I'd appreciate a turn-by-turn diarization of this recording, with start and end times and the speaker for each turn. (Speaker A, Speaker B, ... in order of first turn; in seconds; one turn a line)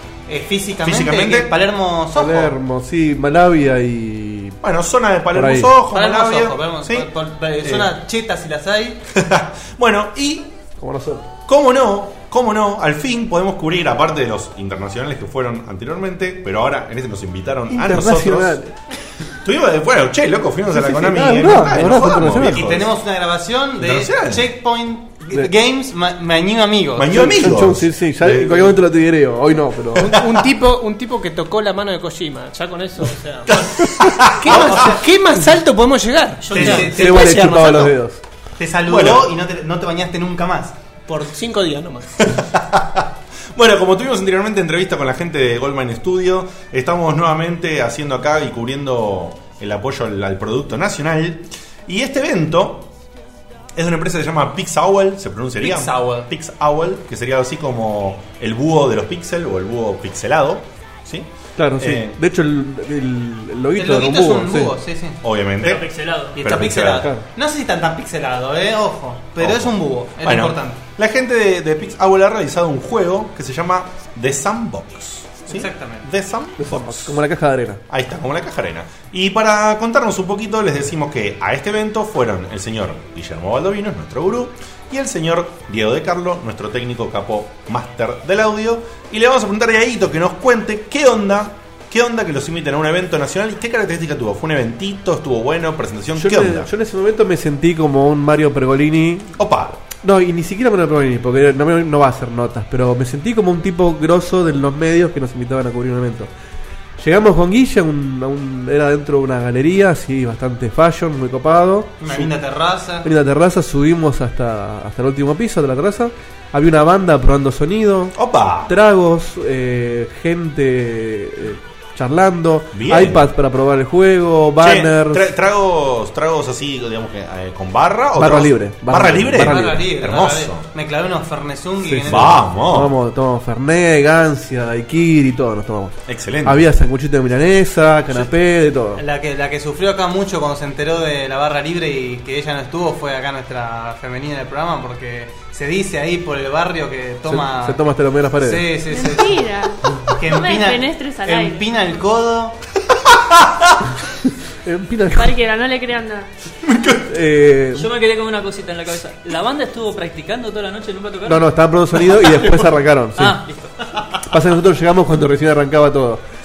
Speaker A: 0.3-2.5
Speaker B: 0.8-1.6
Speaker C: 2.1-4.6
Speaker B: 4.6-7.1
Speaker C: 5.3-5.7
Speaker A: 5.9-9.0
Speaker B: 7.6-7.9
Speaker B: 9.1-10.5
Speaker C: 10.8-11.2
Speaker B: 11.5-18.6
Speaker C: 17.7-18.7
Speaker B: 19.4-22.9
Speaker C: 20.7-22.7
Speaker A: 22.5-27.1
Speaker B: 23.8-24.4
Speaker B: 27.0-28.8
Speaker C: 27.1-30.1
Speaker D: 29.9-33.6
Speaker B: 30.0-30.4
Speaker B: 33.5-34.9
Speaker D: 34.4-37.6
Speaker A: 34.5-35.0
Speaker E: 36.4-36.9
Speaker A: 36.5-37.9
Speaker C: 36.6-38.2
Speaker A: 38.6-40.8
Speaker B: 38.9-39.3
Speaker D: 41.1-42.1
Speaker B: 42.2-52.9
Speaker B: 53.7-62.2
Speaker A: 55.6-56.3
Speaker C: 61.6-64.7
Speaker A: 63.7-65.2
Speaker B: 65.2-67.1
Speaker E: 65.6-66.4
Speaker A: 66.3-70.8
Speaker B: 69.4-77.2
Speaker A: 75.5-76.0
Speaker C: 76.6-77.8
Speaker B: 77.9-96.7
Speaker C: 96.2-99.3
Speaker B: 99.4-99.8
Speaker C: 100.0-106.3
Speaker C: 107.0-112.3
Speaker A: 112.0-113.1
Speaker C: 113.0-118.1
Speaker B: 118.1-118.7
Speaker C: 118.7-125.3
Speaker B: 122.7-123.2
Speaker B: 124.6-130.7
Speaker C: 128.2-129.8
Speaker A: 129.4-132.4
Speaker C: 131.8-139.0
Speaker B: 132.1-132.9
Speaker B: 136.1-136.7
Speaker A: 138.9-147.8
Speaker C: 147.3-148.7
Speaker A: 148.4-149.4
Speaker F: 148.9-149.8
Speaker A: 150.1-152.6
Speaker F: 150.3-151.7
Speaker B: 152.9-153.7
Speaker C: 154.6-155.3
Speaker F: 155.1-156.3
Speaker B: 156.6-157.0
Speaker C: 157.1-157.8
Speaker E: 157.8-161.5
Speaker C: 161.3-163.4
Speaker E: 162.1-162.6
Speaker E: 163.2-163.7
Speaker C: 164.3-166.2